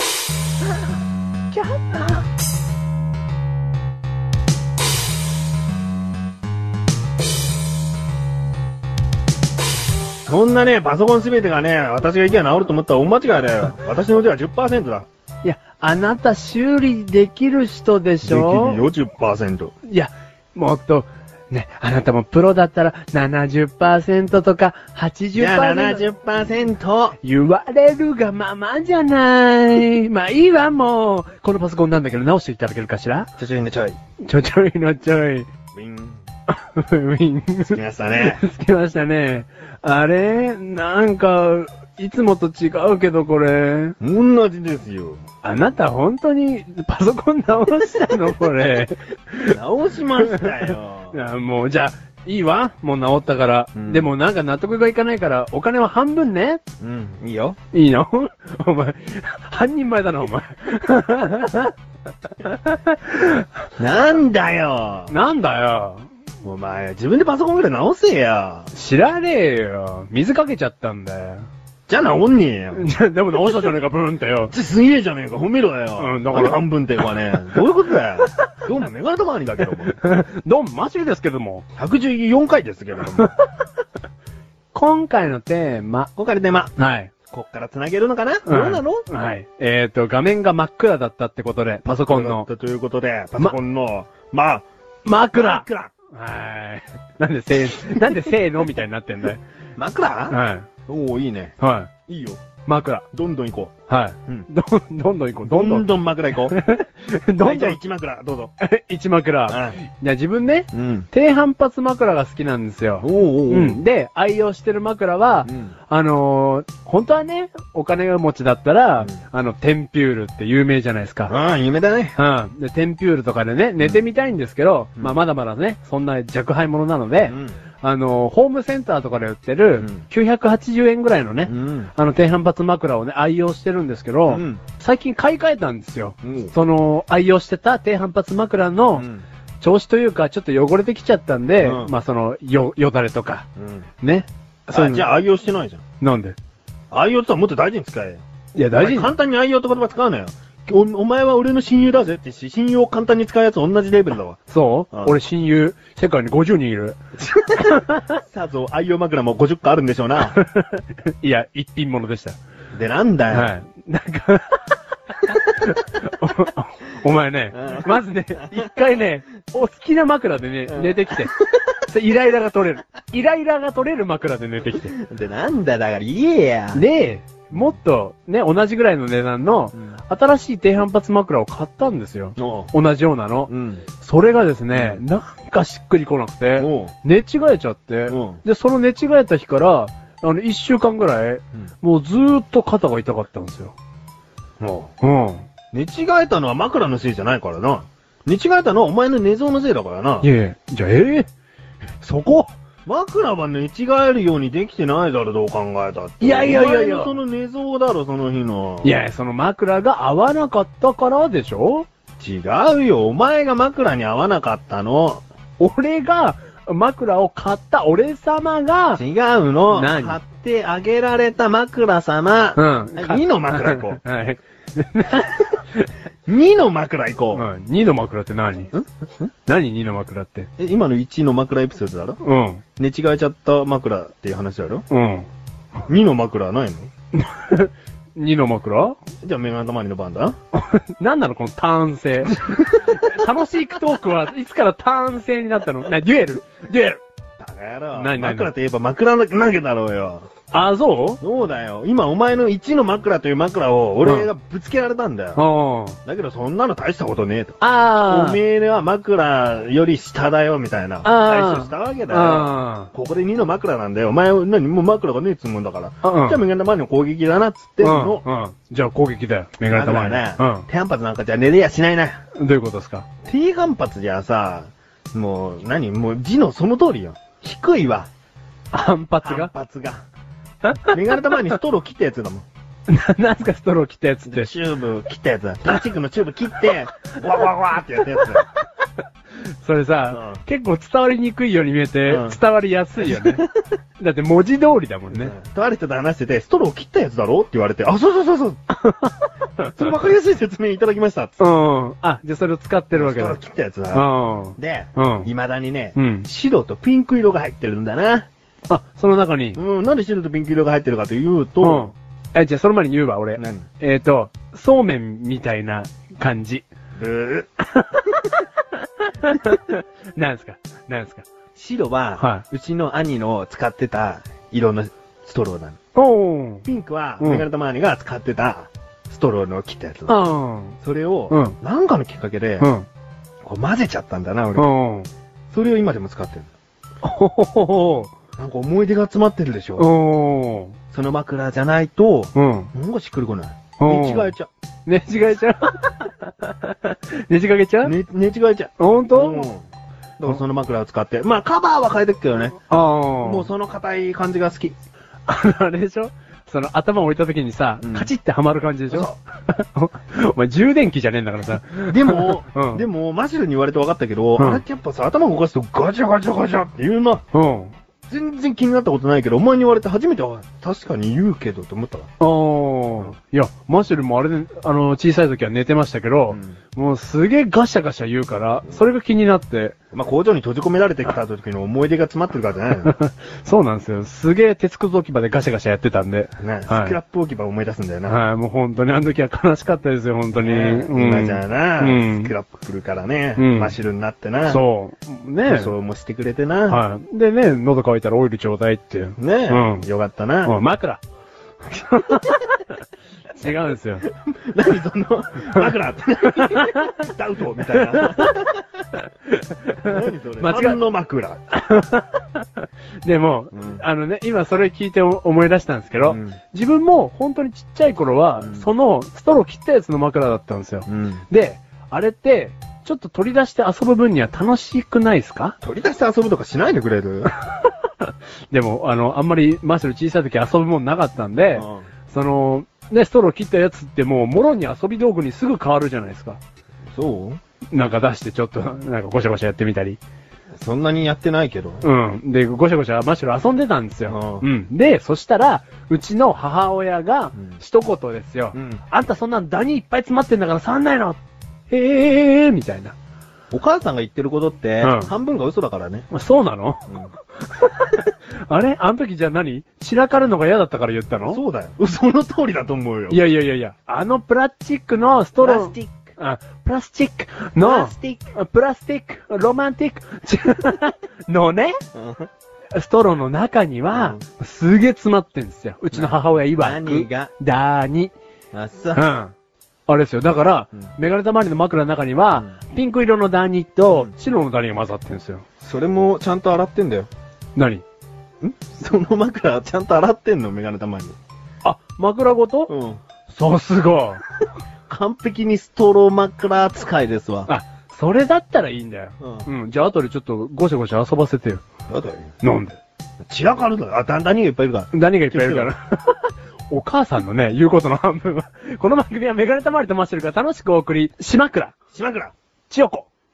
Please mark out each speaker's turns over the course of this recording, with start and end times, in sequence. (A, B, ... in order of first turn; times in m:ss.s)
0:01.5-0:02.2 A
0:10.3-0:15.1 B
0:15.4-0:18.8 A
0:18.2-0:19.7 B
0:19.9-0:26.0 A
0:25.3-0:27.2 B
0:27.2-0:33.3 A
0:33.4-0:34.0 B
0:34.2-0:35.5 A
0:35.7-0:36.2 B
0:36.5-0:44.0 A
0:37.6-0:38.4 B
0:44.0-0:45.2 B
0:45.4-0:49.6 A
0:49.5-0:51.2 B
0:50.2-0:56.6 A
0:53.7-0:54.1 B
0:56.8-0:57.6 B
0:57.7-1:01.7 A
1:02.3-1:03.4 A
1:03.8-1:05.1 B
1:05.1-1:06.1 A
1:06.4-1:08.7 B
1:08.7-1:11.5 A
1:11.9-1:12.8 B
1:12.7-1:14.5 A
1:14.5-1:20.0 B
1:16.0-1:17.1 A
1:19.6-1:21.6 A
1:21.8-1:23.3 B
1:24.7-1:26.1 A
1:26.2-1:26.7 B
1:26.8-1:27.1 A
1:27.3-1:29.0 B
1:28.4-1:32.5 A
1:31.8-1:34.6 B
1:35.0-1:39.4 A
1:35.3-1:35.9 B
1:37.8-1:38.3 B
1:39.8-1:40.4 B
1:40.3-1:40.7 A
1:40.9-1:41.5 B
1:41.6-1:41.9 A
1:42.1-1:42.4 B
1:42.6-1:43.0 A
1:43.1-1:43.7 B
1:43.9-1:47.8 A
1:45.4-1:46.6 B
1:47.4-1:48.5 B
1:48.6-2:01.3 A
1:49.5-1:49.8 B
1:50.7-1:51.1 B
1:53.0-1:53.8 B
1:55.4-1:55.7 B
2:01.3-2:02.2 B
2:02.2-2:19.0 A
2:07.2-2:07.5 B
2:11.4-2:11.9 B
2:14.3-2:14.6 B
2:16.2-2:16.5 B
2:18.9-2:19.2 B
2:19.6-2:23.4 A
2:21.6-2:21.9 B
2:23.6-2:23.9 B
2:24.0-2:25.1 A
2:24.7-2:25.8 B
2:26.0-2:26.4 A
2:26.9-2:28.2 B
2:28.5-2:29.1 A
2:28.7-2:34.4 B
2:34.5-2:38.2 A
2:34.9-2:35.2 B
2:37.4-2:40.4 B
2:40.2-2:42.4 A
2:42.7-2:43.5 B
2:43.3-2:51.3 A
2:47.5-2:48.7 B
2:50.7-2:51.8 B
2:51.8-2:54.9 A
2:54.9-2:56.8 B
2:56.7-3:13.7 A
3:02.4-3:02.7 B
3:03.5-3:03.8 B
3:04.7-3:05.0 B
3:06.6-3:06.9 B
3:08.1-3:08.4 B
3:14.6-3:14.9 B
3:15.0-3:15.4 A
3:15.7-3:20.3 B
3:20.2-3:21.3 A
3:22.0-3:22.5 A
3:22.8-3:28.9 B
3:26.2-3:27.2 A
3:28.8-3:31.9 A
3:32.2-3:35.2 B
3:35.6-3:39.0 A
3:39.0-3:44.0 B
3:39.7-3:40.2 A
3:42.6-3:45.9 A
3:46.3-3:47.5 B
3:47.3-3:48.7 A
3:48.7-3:49.3 B
3:49.4-3:50.5 A
3:50.6-3:52.2 B
3:52.2-3:52.6 A
3:52.8-3:54.8 B
3:54.9-3:55.3 A
3:55.9-3:56.9 B
3:57.1-3:59.0 A
3:59.2-4:00.4 B
4:00.5-4:07.0 A
4:02.3-4:02.8 B
4:07.4-4:10.3 B
4:07.9-4:08.5 A
4:10.5-4:11.2 A
4:11.2-4:15.4 B
4:14.0-4:14.3 A
4:15.4-4:16.0 A
4:16.0-4:28.2 B
4:17.6-4:18.4 A
4:21.0-4:22.9 A
4:26.0-4:26.4 A
4:27.8-4:30.6 A
4:29.7-4:32.2 B
4:32.4-4:33.1 A
4:33.2-4:38.1 B
4:38.7-4:39.5 A
4:39.2-4:40.0 B
4:40.7-4:41.0 A
4:40.8-4:42.5 B
4:42.9-4:44.5 A
4:44.3-4:48.4 B
4:49.4-4:53.4 A
4:50.1-4:50.4 B
4:52.1-4:52.4 B
4:53.0-4:53.4 B
4:54.0-4:55.3 A
4:55.1-4:58.6 B
4:58.8-4:59.9 A
4:59.6-5:01.3 B
5:01.4-5:03.4 A
5:02.9-5:08.3 B
5:03.9-5:05.3 A
5:06.0-5:06.3 A
5:08.7-5:09.6 A
5:09.6-5:11.9 B
5:11.6-5:16.7 A
5:13.4-5:13.7 B
5:17.0-5:17.5 B
5:17.7-5:21.2 A
5:21.6-5:25.8 B
5:22.2-5:22.4 A
5:25.9-5:26.6 A
5:26.6-5:30.2 B
5:27.2-5:27.4 A
5:30.1-5:30.8 A
5:30.8-5:32.7 B
5:31.3-5:31.6 A
5:32.6-5:32.9 A
5:33.4-5:34.7 B
5:34.6-5:35.1 A
5:35.5-5:36.5 B
5:37.0-5:38.1 A
5:38.4-5:39.9 B
5:39.8-5:40.8 A
5:40.9-5:44.5 B
5:42.3-5:42.7 A
5:43.8-5:44.3 A
5:44.8-5:47.9 A
5:47.8-5:49.6 B
5:48.8-5:49.5 A
5:50.2-5:52.6 B
5:52.7-5:53.5 A
5:53.2-5:54.8 B
5:55.3-6:02.8 A
5:57.8-5:58.1 B
5:58.9-5:59.2 B
6:01.9-6:07.2 B
6:04.4-6:04.6 A
6:07.3-6:07.7 A
6:08.1-6:12.1 B
6:12.2-6:19.7 A
6:16.3-6:16.6 B
6:19.9-6:22.9 B
6:22.8-6:27.0 A
6:26.4-6:28.2 B
6:28.1-6:32.3 A
6:30.4-6:34.6 B
6:33.4-6:33.7 A
6:34.4-6:35.7 A
6:35.4-6:36.8 B
6:36.7-6:39.8 A
6:39.2-6:40.6 B
6:40.4-6:41.0 A
6:41.7-6:42.8 A
6:43.3-6:44.1 A
6:44.0-6:48.6 B
6:46.3-6:47.1 A
6:47.7-6:48.4 A
6:49.0-6:50.8 A
6:49.8-6:51.4 B
6:51.5-7:05.6 A
6:53.5-6:53.8 B
6:56.0-6:56.4 B
6:58.4-6:58.7 B
7:00.9-7:01.2 B
7:05.6-7:07.3 B
7:07.5-7:16.4 A
7:11.5-7:11.9 B
7:16.9-7:17.4 B
7:17.7-7:20.0 A
7:20.6-7:21.8 B
7:21.8-7:32.9 A
7:24.1-7:24.5 B
7:28.5-7:28.8 B
7:33.5-7:36.1 B
7:34.8-7:35.1 A
7:36.1-7:36.8 A
7:36.9-7:37.1 B
7:37.4-7:41.4 A
7:41.3-7:43.2 B
7:43.1-7:51.8 A
7:45.4-7:46.1 B
7:47.6-7:48.3 B
7:51.9-7:52.3 B
7:52.7-7:58.1 A
7:53.9-7:54.2 B
7:55.9-7:57.3 B
7:58.5-7:59.0 B
7:58.9-7:59.3 A
7:59.9-8:05.4 A
8:05.6-8:07.1 B
8:07.6-8:07.8 A
8:08.4-8:11.2 B
8:11.6-8:12.7 A
8:12.7-8:13.0 B
8:13.3-8:14.2 A
8:14.9-8:17.5 B
8:17.5-8:21.6 A
8:19.2-8:19.5 B
8:21.9-8:22.3 B
8:22.4-8:22.8 A
8:23.2-8:25.7 B
8:24.9-8:31.7 A
8:31.9-8:32.3 B
8:32.7-8:33.1 A